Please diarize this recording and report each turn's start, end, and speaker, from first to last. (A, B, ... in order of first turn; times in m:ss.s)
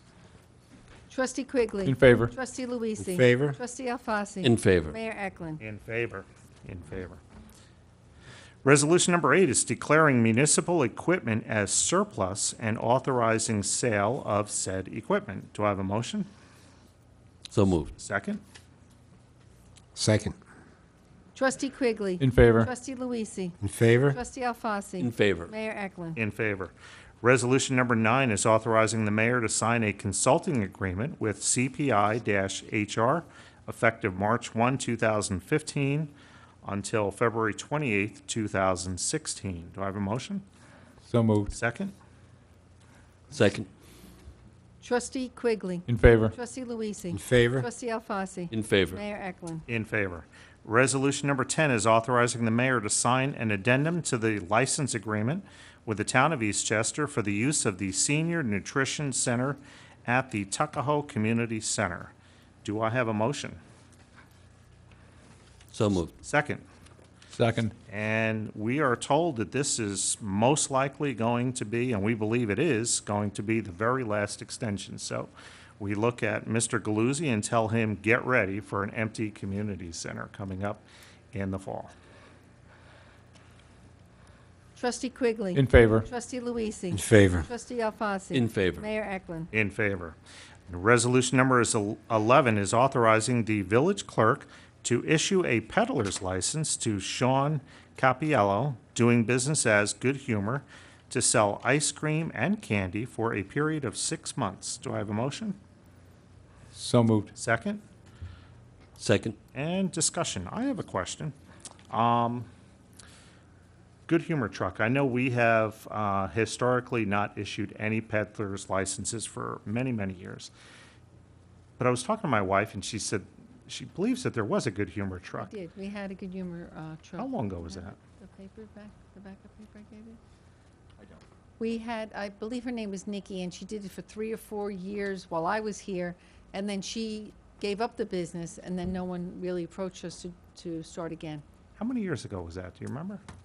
0:01.1-0:05.6 A
0:01.8-0:02.3 B
0:03.0-0:03.6 C
0:04.4-0:05.0 D
0:05.6-0:07.2 E
0:08.6-0:16.3 E
0:17.5-0:17.9 D
0:18.0-0:18.4 E
0:19.9-0:20.4 C
0:21.3-0:23.6 A
0:22.2-0:22.7 B
0:23.6-0:24.2 C
0:24.1-0:26.2 A
0:25.0-0:25.5 D
0:26.2-0:36.1 E
0:36.6-0:40.4 E
0:41.0-0:41.5 B
0:41.5-0:41.9 E
0:43.3-0:43.7 D
0:44.8-0:49.6 A
0:45.8-0:46.3 B
0:47.1-0:47.7 C
0:48.5-0:49.0 D
0:49.7-1:03.6 E
1:05.7-1:06.1 D
1:06.2-1:06.6 E
1:07.3-1:07.7 B
1:07.9-1:21.9 E
1:24.7-1:29.5 A
1:25.5-1:26.0 B
1:26.9-1:27.5 C
1:28.3-1:28.9 D
1:29.5-1:30.2 E
1:30.7-1:45.6 E
1:46.7-1:47.3 B
1:47.3-1:47.8 E
1:49.0-1:49.4 D
1:49.5-1:51.3 E
1:51.9-1:52.5 E
1:54.1-2:00.5 E
2:01.8-2:05.5 E
2:05.4-2:10.2 A
2:07.2-2:08.0 E
2:11.6-2:21.4 A
2:21.8-2:23.2 E